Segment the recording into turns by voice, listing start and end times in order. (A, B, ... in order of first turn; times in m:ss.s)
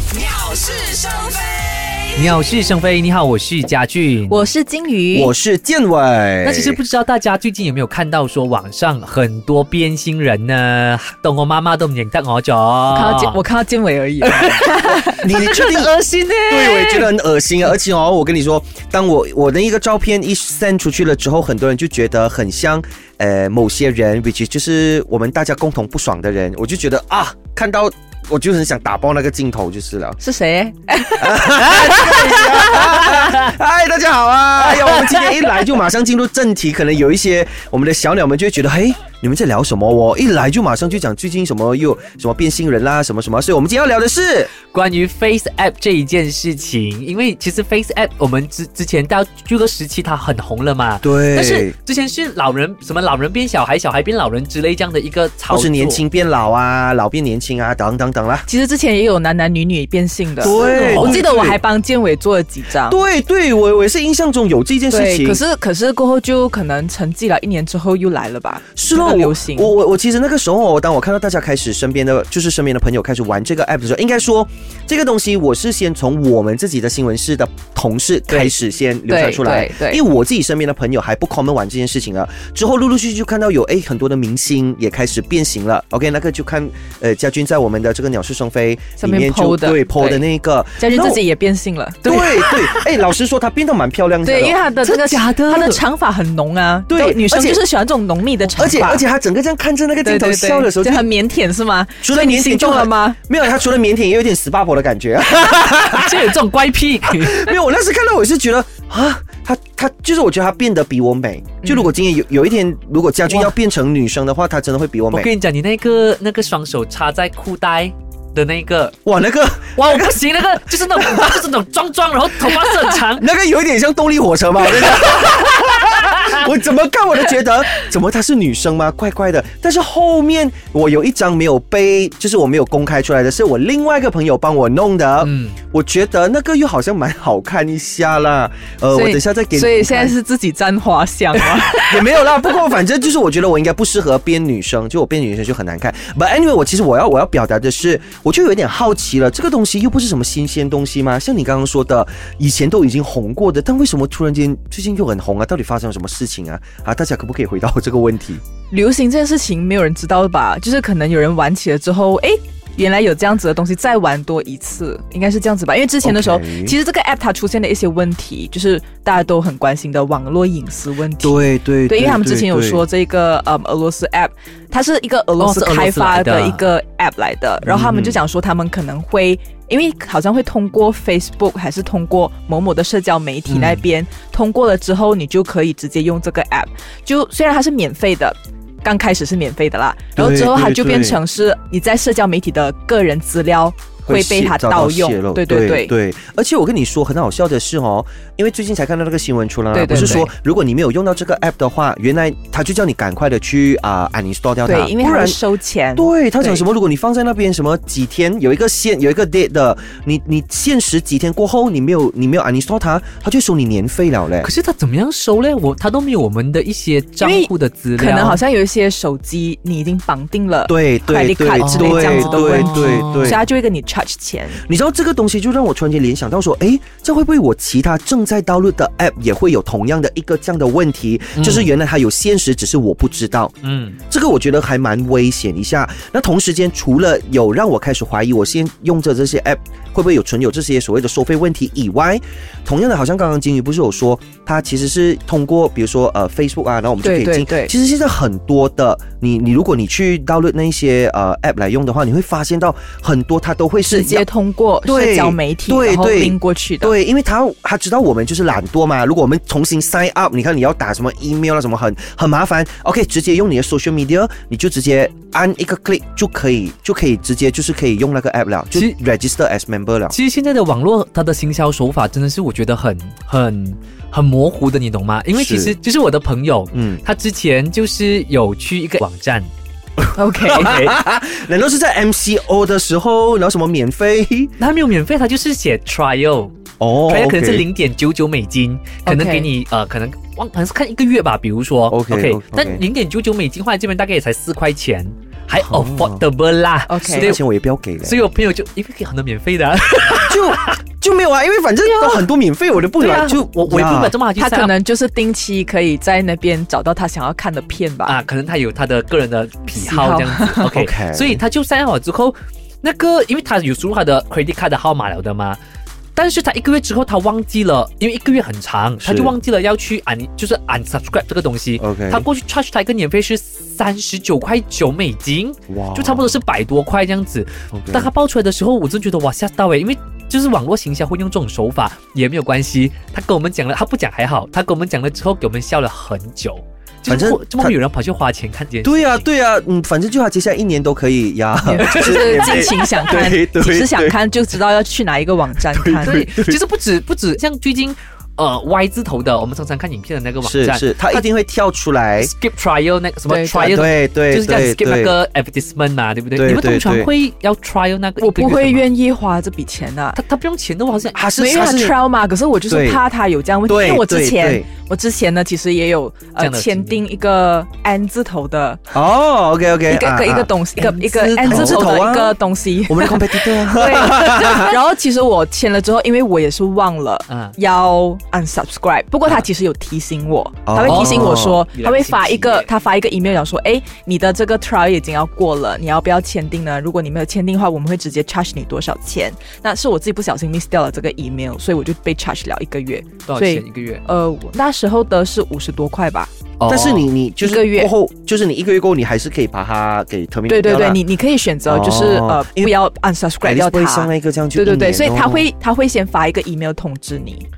0:02.1-0:04.5 A
0:04.3-0:05.3 B
0:05.1-0:06.8 C
0:06.4-0:13.4 A
0:12.9-0:15.1 B
0:14.2-0:17.1 A
0:15.0-0:15.9 C
0:16.4-0:30.2 C
0:30.2-0:31.5 B
0:31.2-0:44.5 C
0:31.6-0:33.5 A
0:34.6-0:35.7 A
0:44.7-0:56.0 A
0:51.0-0:51.8 C
0:55.5-0:58.5 C
0:58.5-1:03.0 B
1:00.4-1:01.6 C
1:00.4-1:01.2 A
1:02.8-1:05.4 C
1:04.9-1:09.7 B
1:08.7-1:31.2 C
1:19.1-1:20.0 B
1:29.0-1:30.2 B
1:30.8-1:32.1 B
1:32.0-1:32.9 A
1:32.0-1:34.6 C
1:34.2-1:39.0 B
1:34.8-1:35.8 A
1:36.9-1:37.6 C
1:38.5-1:41.1 C
1:40.0-1:43.2 B
1:42.0-1:46.4 C
1:45.6-1:47.6 A
1:47.1-1:55.3 C
1:51.6-1:51.9 B
1:55.1-1:59.0 A
1:59.0-2:00.2 C
1:59.8-2:03.2 A
2:00.8-2:01.3 C
2:03.1-2:20.1 C
2:15.2-2:15.6 A
2:18.9-2:22.1 B
2:21.4-2:38.4 C
2:38.7-3:15.9 B
2:46.0-2:46.8 C
2:51.2-2:52.8 C
2:55.4-2:56.7 A
2:57.6-2:58.2 C
3:03.5-3:03.8 A
3:10.2-3:11.2 C
3:14.0-3:25.4 C
3:19.7-3:20.3 B
3:19.9-3:20.3 A
3:24.6-3:26.6 B
3:26.0-3:34.5 C
3:34.4-3:38.4 A
3:37.2-3:44.6 B
3:40.7-3:43.4 C
3:41.6-3:43.4 A
3:44.6-3:53.5 C
3:51.4-3:51.7 A
3:53.6-3:54.0 A
3:54.1-4:14.3 C
4:07.0-4:07.7 B
4:13.9-4:16.9 B
4:14.8-4:30.2 C
4:30.1-4:39.5 A
4:35.3-4:35.7 C
4:36.7-4:37.0 C
4:40.1-4:40.8 B
4:40.3-4:44.5 C
4:40.6-4:41.0 A
4:44.6-4:57.4 A
4:46.8-4:47.7 C
4:49.0-4:49.5 B
4:51.9-4:52.8 C
4:55.6-4:56.2 C
4:56.9-4:57.4 B
4:57.1-4:58.2 C
4:58.0-5:00.7 A
5:00.1-5:04.1 C
5:01.8-5:02.3 A
5:02.8-5:04.7 A
5:04.4-5:08.2 B
5:08.0-5:15.6 A
5:09.7-5:10.6 B
5:10.6-5:11.4 C
5:16.1-5:39.2 A
5:19.0-5:19.3 C
5:21.8-5:22.3 C
5:25.7-5:26.4 C
5:27.7-5:28.1 C
5:37.1-5:37.8 C
5:38.8-5:44.2 C
5:41.6-5:46.3 B
5:41.8-5:42.5 A
5:45.7-5:46.6 C
5:46.0-5:51.2 A
5:50.4-5:52.3 C
5:52.2-5:58.8 A
5:53.3-5:53.7 B
5:53.5-5:55.2 C
5:56.3-5:57.1 C
5:58.2-6:00.2 B
6:00.1-6:01.2 A
6:01.1-6:02.1 C
6:01.4-6:08.9 B
6:02.7-6:03.0 C
6:03.7-6:04.7 C
6:06.4-6:07.0 A
6:08.9-6:14.7 C
6:09.9-6:36.3 B
6:11.4-6:11.9 A
6:17.3-6:17.5 A
6:20.6-6:21.6 C
6:20.8-6:22.7 A
6:33.2-6:34.0 A
6:36.6-6:37.1 A
6:36.6-6:41.0 C
6:37.4-6:37.9 B
6:40.5-6:47.4 B
6:41.6-6:42.7 C
6:43.4-6:45.5 C